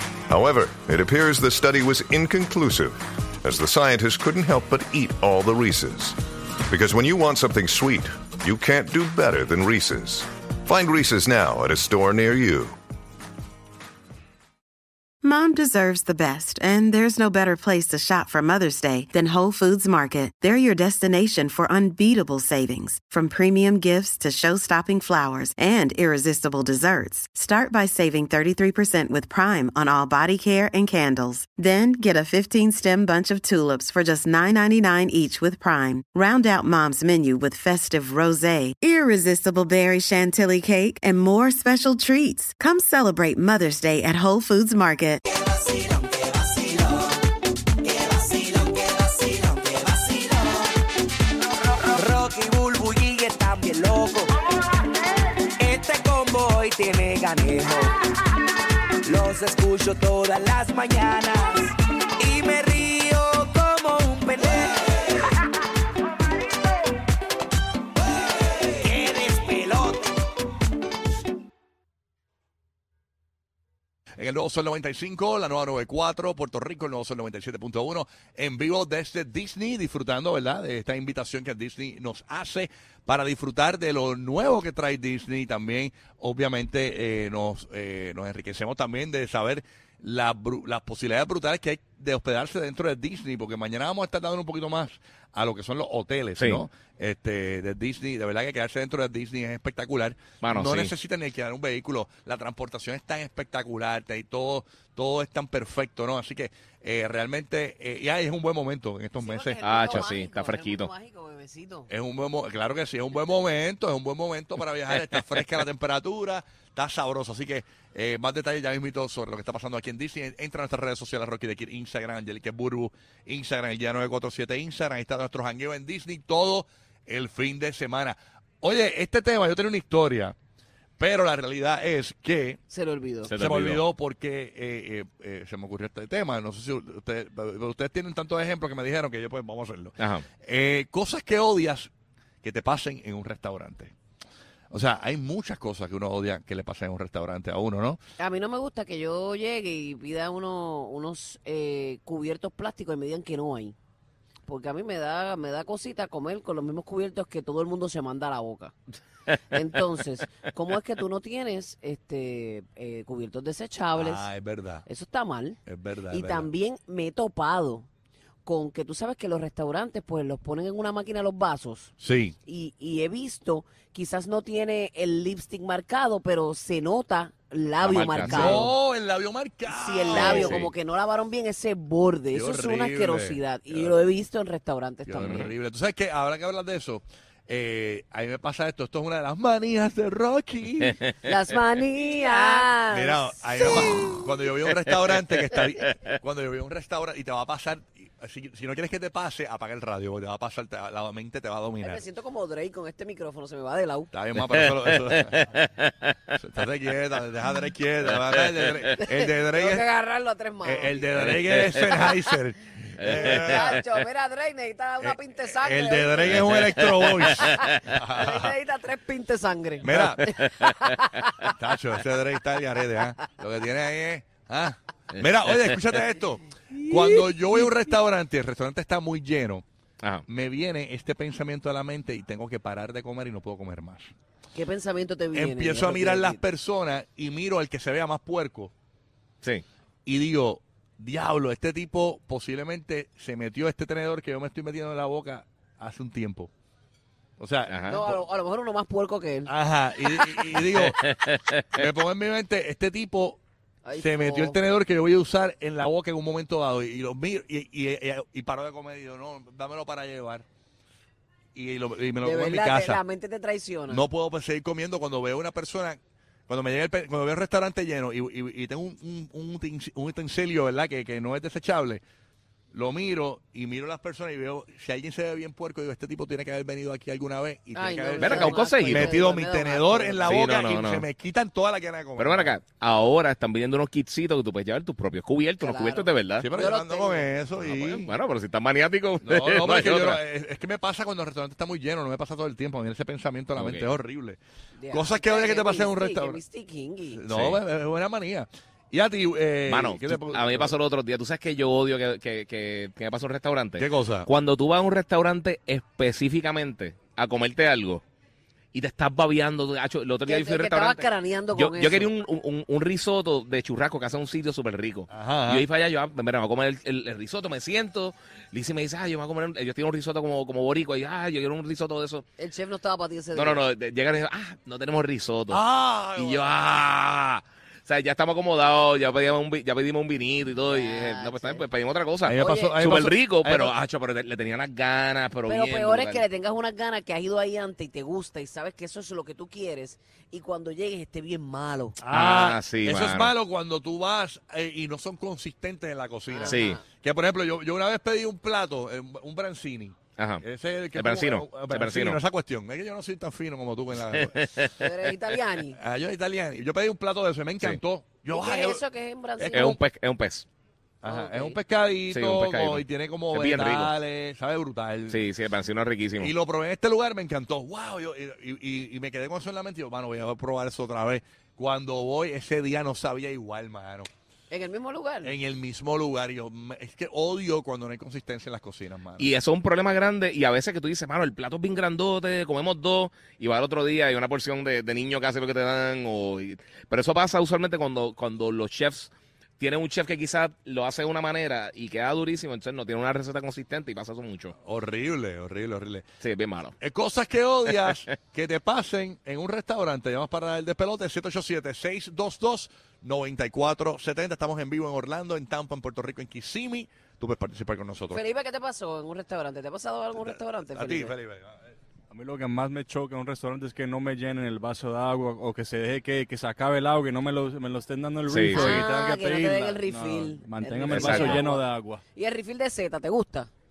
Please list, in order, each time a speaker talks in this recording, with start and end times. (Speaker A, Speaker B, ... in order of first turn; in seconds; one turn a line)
Speaker A: 0.3-12.8
Speaker B: 15.2-45.2
Speaker C: 45.3-47.1
Speaker C: 47.9-50.7
Speaker C: 51.9-54.3
Speaker C: 55.6-57.9
Speaker C: 59.0-64.9
Speaker C: 68.7-70.1
Speaker D: 74.2-110.1
Speaker E: 96.4-96.6
Speaker E: 100.4-100.9
Speaker F: 109.2-111.9
Speaker E: 109.6-110.9
Speaker D: 111.9-130.3
Speaker D: 131.0-132.6
Speaker F: 132.7-133.3
Speaker E: 133.2-133.8
Speaker D: 133.4-141.9
Speaker E: 140.0-140.2
Speaker D: 142.4-143.9
Speaker D: 144.7-148.0
Speaker F: 148.2-153.8
Speaker F: 154.4-158.7
Speaker F: 159.5-164.3
Speaker D: 163.9-164.8
Speaker F: 164.8-165.6
Speaker D: 165.7-166.5
Speaker F: 166.1-167.9
Speaker F: 168.4-171.9
Speaker D: 172.0-172.3
Speaker F: 172.4-178.7
Speaker E: 177.8-178.7
Speaker D: 178.2-180.7
Speaker F: 179.7-185.5
Speaker E: 180.1-180.7
Speaker D: 182.3-183.9
Speaker D: 185.1-191.0
Speaker E: 185.2-185.5
Speaker F: 191.2-193.8
Speaker D: 192.9-202.0
Speaker E: 194.7-195.9
Speaker F: 201.8-204.1
Speaker D: 204.1-205.5
Speaker E: 204.4-206.2
Speaker D: 206.3-209.8
Speaker E: 208.1-208.9
Speaker F: 209.0-212.3
Speaker D: 210.6-213.8
Speaker E: 213.0-213.8
Speaker F: 213.0-221.5
Speaker D: 215.0-218.5
Speaker E: 216.2-216.9
Speaker D: 219.8-220.3
Speaker E: 220.6-220.8
Speaker D: 221.6-229.6
Speaker D: 230.3-234.1
Speaker F: 234.5-236.4
Speaker D: 235.3-238.7
Speaker D: 240.1-246.5
Speaker D: 247.4-248.2
Speaker E: 247.7-248.0
Speaker F: 247.9-249.5
Speaker D: 249.4-251.1
Speaker E: 250.6-251.8
Speaker D: 251.7-253.4
Speaker F: 253.8-254.6
Speaker D: 254.0-260.4
Speaker D: 261.5-263.0
Speaker F: 262.2-264.0
Speaker D: 263.9-272.0
Speaker D: 272.7-282.6
Speaker F: 277.7-280.4
Speaker E: 278.2-279.1
Speaker E: 280.2-281.1
Speaker E: 282.2-286.5
Speaker F: 285.6-287.3
Speaker D: 286.4-288.1
Speaker E: 287.6-290.2
Speaker D: 289.2-294.4
Speaker E: 293.6-293.9
Speaker F: 294.8-297.2
Speaker D: 294.9-296.4
Speaker D: 297.1-300.8
Speaker E: 297.3-297.6
Speaker E: 299.6-308.0
Speaker D: 303.8-304.3
Speaker E: 308.7-322.2
Speaker F: 310.3-312.1
Speaker D: 315.1-315.6
Speaker F: 322.4-323.6
Speaker E: 323.3-325.6
Speaker D: 325.5-326.6
Speaker E: 326.1-336.2
Speaker F: 330.6-331.6
Speaker D: 332.2-333.7
Speaker F: 332.4-332.7
Speaker F: 335.5-342.0
Speaker D: 342.0-354.4
Speaker E: 342.1-343.3
Speaker F: 346.3-346.8
Speaker E: 346.4-346.8
Speaker E: 350.2-350.4
Speaker E: 350.9-352.2
Speaker E: 354.0-354.9
Speaker F: 354.8-355.8
Speaker D: 355.8-358.8
Speaker F: 358.3-359.8
Speaker D: 359.4-359.8
Speaker E: 359.5-360.4
Speaker D: 361.0-365.2
Speaker F: 361.0-361.6
Speaker E: 362.1-363.9
Speaker E: 365.1-366.3
Speaker D: 366.2-374.1
Speaker F: 374.5-375.3
Speaker D: 375.2-379.3
Speaker E: 379.2-394.5
Speaker D: 394.6-396.1
Speaker E: 396.2-396.7
Speaker D: 396.8-408.2
Speaker F: 408.1-411.1
Speaker D: 410.2-411.6
Speaker G: 412.1-422.0
Speaker E: 418.3-418.9
Speaker F: 418.5-423.5
Speaker E: 420.9-421.4